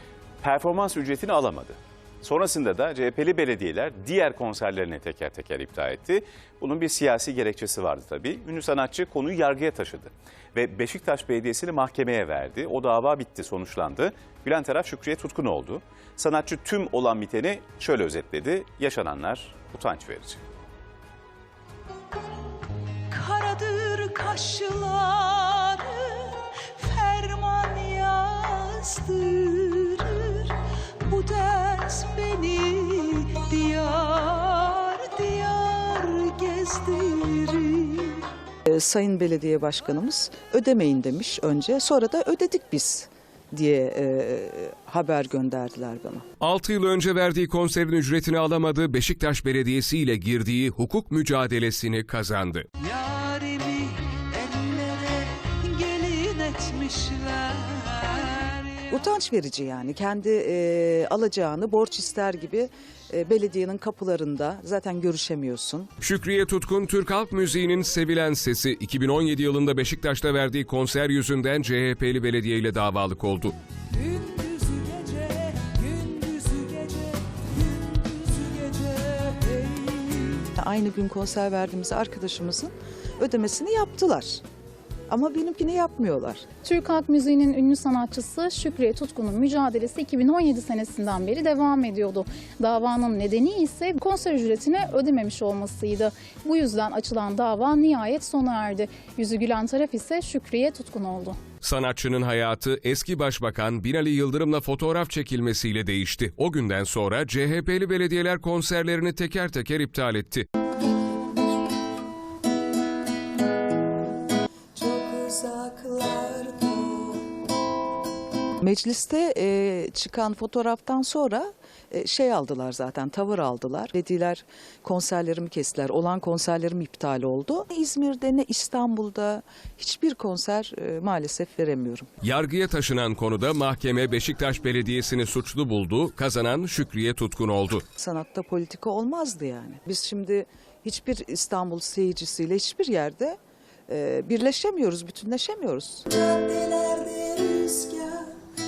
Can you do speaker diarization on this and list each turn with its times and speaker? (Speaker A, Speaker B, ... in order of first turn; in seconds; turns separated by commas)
Speaker A: 0.4-20.4, Speaker B: 23.1-30.5, Speaker C: 29.3-29.9, Speaker B: 31.1-38.2, Speaker C: 38.6-46.2, Speaker D: 46.4-52.7, Speaker B: 52.8-58.9, Speaker C: 58.9-65.9, Speaker D: 66.0-73.5, Speaker B: 74.0-80.5, Speaker C: 80.6-84.4, Speaker C: 85.1-86.5, Speaker E: 86.6-101.4, Speaker D: 101.6-110.5, Speaker C: 114.8-117.3, Speaker C: 118.6-132.1, Speaker D: 132.2-137.8, Speaker C: 138.0-148.3